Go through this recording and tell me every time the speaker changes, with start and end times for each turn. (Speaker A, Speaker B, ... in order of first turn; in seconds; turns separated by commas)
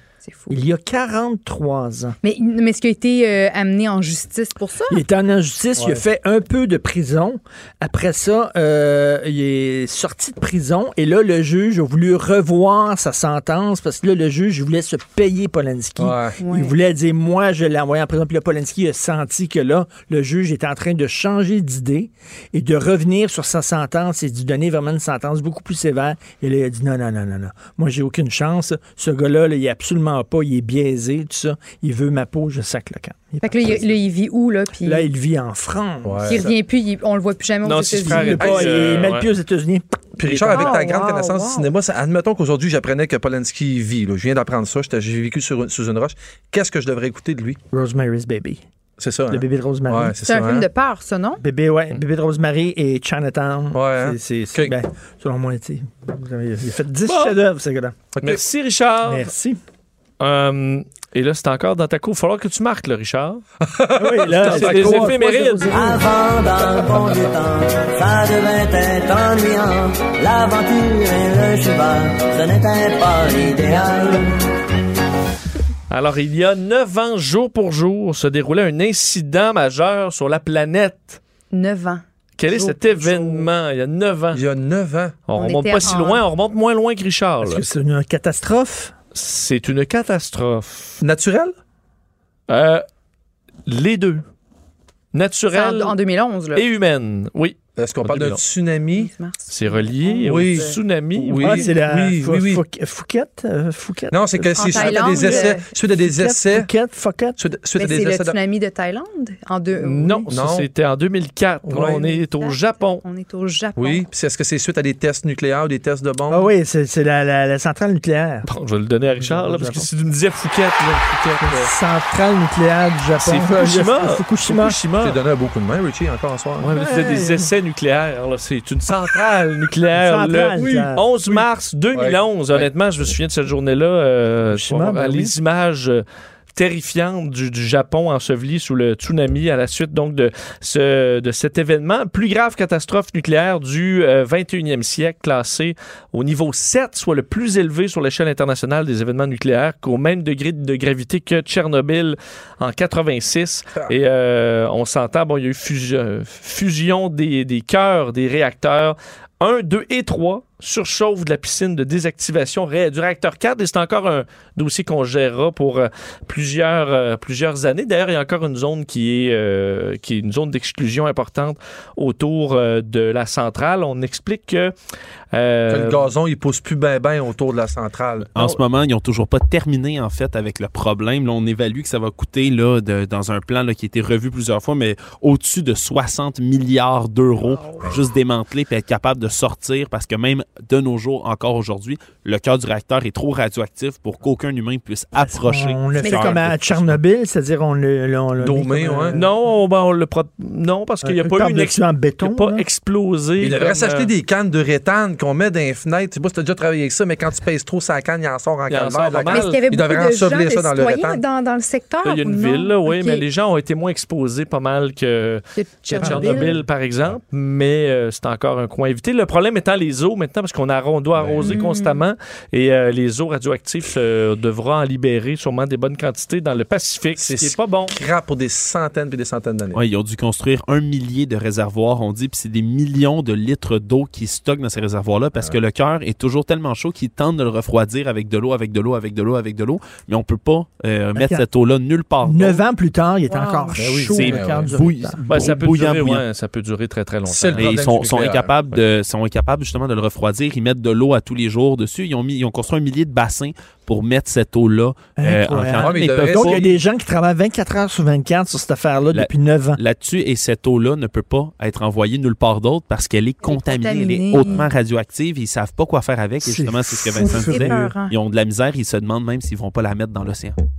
Speaker A: 0.2-0.5, Speaker B: 0.5-2.1, Speaker A: 2.2-5.0, Speaker B: 4.9-34.0, Speaker C: 5.8-6.0, Speaker C: 16.0-16.4, Speaker A: 16.4-16.7, Speaker A: 33.4-35.1, Speaker B: 34.8-36.5, Speaker C: 36.0-36.5, Speaker A: 36.2-38.6, Speaker D: 37.6-39.3, Speaker B: 38.0-39.8, Speaker C: 38.5-38.8, Speaker C: 40.2-47.6, Speaker A: 40.5-41.7, Speaker B: 47.7-48.6, Speaker C: 49.0-50.7, Speaker B: 49.3-50.1, Speaker A: 50.2-51.4, Speaker B: 51.4-58.0, Speaker C: 53.7-54.7, Speaker D: 57.0-57.4, Speaker C: 58.1-58.4, Speaker D: 58.2-59.3, Speaker B: 59.0-59.6, Speaker D: 60.2-63.4, Speaker C: 63.6-65.2, Speaker B: 64.0-66.0, Speaker D: 64.3-65.8, Speaker E: 65.7-74.3, Speaker D: 75.9-81.2, Speaker A: 81.5-83.5, Speaker D: 82.4-84.4, Speaker C: 84.3-85.2, Speaker D: 85.2-87.6, Speaker A: 85.3-86.2, Speaker B: 87.4-88.9, Speaker D: 89.1-91.0, Speaker C: 91.0-91.5, Speaker D: 92.5-92.8, Speaker D: 93.7-94.2, Speaker D: 95.1-95.9, Speaker A: 95.5-96.7, Speaker D: 96.5-98.4, Speaker C: 97.8-99.1, Speaker A: 98.9-100.8, Speaker D: 99.5-101.7, Speaker C: 100.2-102.6, Speaker B: 101.4-107.4, Speaker C: 104.1-106.7, Speaker A: 104.5-105.7, Speaker C: 107.4-108.4, Speaker A: 107.8-110.2, Speaker D: 109.8-113.0, Speaker C: 110.3-110.7, Speaker C: 111.7-112.0, Speaker A: 111.8-114.0, Speaker C: 113.8-116.5, Speaker B: 116.3-118.5, Speaker D: 118.5-121.7, Speaker B: 119.2-119.9, Speaker B: 121.4-124.8, Speaker D: 123.2-125.2, Speaker C: 125.0-126.8, Speaker D: 126.6-174.7, Speaker B: 126.7-127.5, Speaker B: 129.9-131.0, Speaker C: 130.5-132.7, Speaker B: 134.5-135.3, Speaker D: 175.3-176.1, Speaker C: 175.7-178.3, Speaker F: 178.3-197.0, Speaker A: 187.4-187.8, Speaker B: 195.2-199.3, Speaker A: 196.0-196.4, Speaker C: 198.4-199.2, Speaker D: 199.1-204.1, Speaker B: 201.0-202.6, Speaker C: 203.4-211.2, Speaker D: 208.7-209.6, Speaker A: 209.3-213.2, Speaker D: 212.0-227.9, Speaker A: 215.6-216.6, Speaker C: 216.0-217.2, Speaker C: 221.2-221.6, Speaker A: 221.4-222.0, Speaker C: 227.2-229.8, Speaker F: 229.7-242.6, Speaker B: 241.1-241.4, Speaker B: 242.2-245.2, Speaker A: 243.3-243.8, Speaker C: 243.8-244.8, Speaker F: 244.1-246.2, Speaker D: 245.3-248.3, Speaker C: 247.3-248.6, Speaker F: 247.6-256.6, Speaker B: 255.2-259.8, Speaker C: 255.8-256.7, Speaker F: 259.1-270.6, Speaker A: 263.4-264.7, Speaker B: 266.4-267.9, Speaker A: 267.1-268.1